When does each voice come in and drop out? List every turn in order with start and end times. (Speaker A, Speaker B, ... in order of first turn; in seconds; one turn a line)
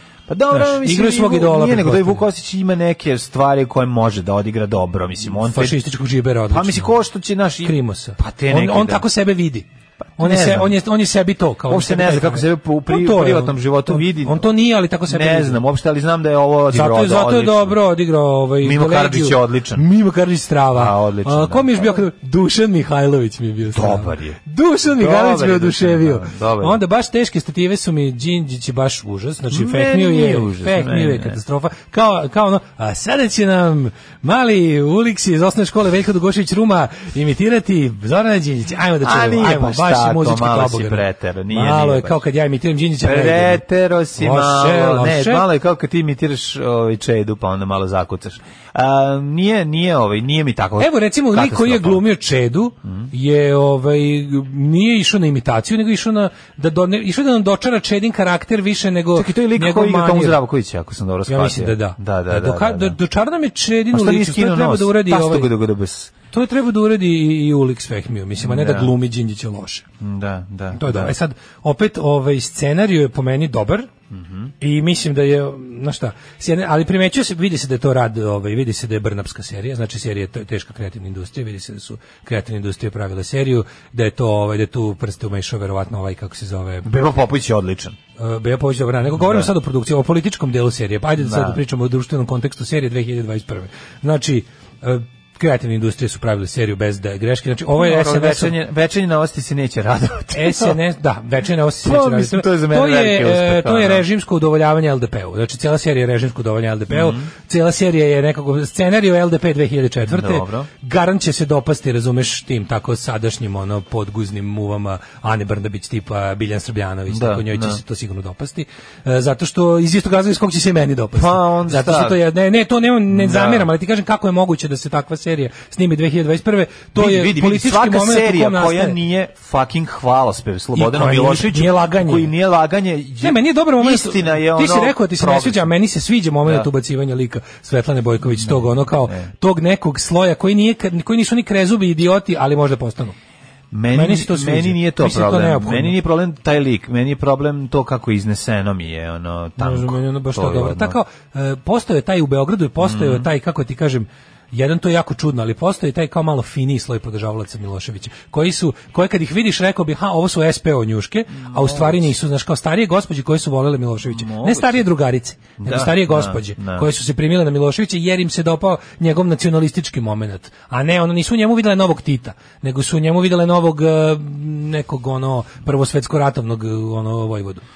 Speaker A: 0.3-5.8
Speaker B: 0.5-2.2
Speaker B: 5.2-6.9
Speaker A: 6.5-9.0
Speaker B: 7.6-9.7
Speaker A: 10.0-10.8
Speaker B: 10.2-15.6
Speaker A: 11.7-14.5
Speaker A: 15.1-17.8
Speaker B: 16.7-43.6
Speaker A: 18.6-19.8
Speaker A: 20.7-22.0
Speaker A: 23.7-26.8
Speaker A: 29.5-31.4
Speaker A: 39.0-42.2
Speaker A: 43.0-52.0
Speaker B: 44.2-45.4
Speaker B: 50.8-60.4
Speaker A: 59.1-63.0
Speaker B: 61.3-65.5
Speaker A: 63.9-66.1
Speaker B: 66.3-69.8
Speaker A: 68.4-68.9
Speaker A: 70.0-71.1
Speaker B: 70.7-73.9
Speaker A: 74.1-74.5
Speaker B: 74.6-86.9
Speaker A: 86.8-88.0
Speaker B: 88.2-98.5
Speaker A: 89.2-89.5
Speaker A: 91.2-91.6
Speaker A: 97.7-100.8
Speaker B: 100.3-129.0
Speaker A: 101.8-104.0
Speaker A: 106.9-107.3
Speaker A: 110.0-110.7
Speaker A: 117.1-117.8
Speaker A: 121.1-122.2
Speaker A: 123.1-123.7
Speaker A: 127.0-135.7
Speaker B: 130.7-132.3
Speaker B: 133.2-143.1
Speaker A: 136.4-136.7
Speaker A: 138.2-139.3
Speaker A: 143.7-151.0
Speaker B: 143.9-146.0
Speaker B: 149.6-177.6
Speaker A: 152.8-153.3
Speaker A: 161.3-162.1
Speaker A: 164.0-164.8
Speaker A: 165.6-166.9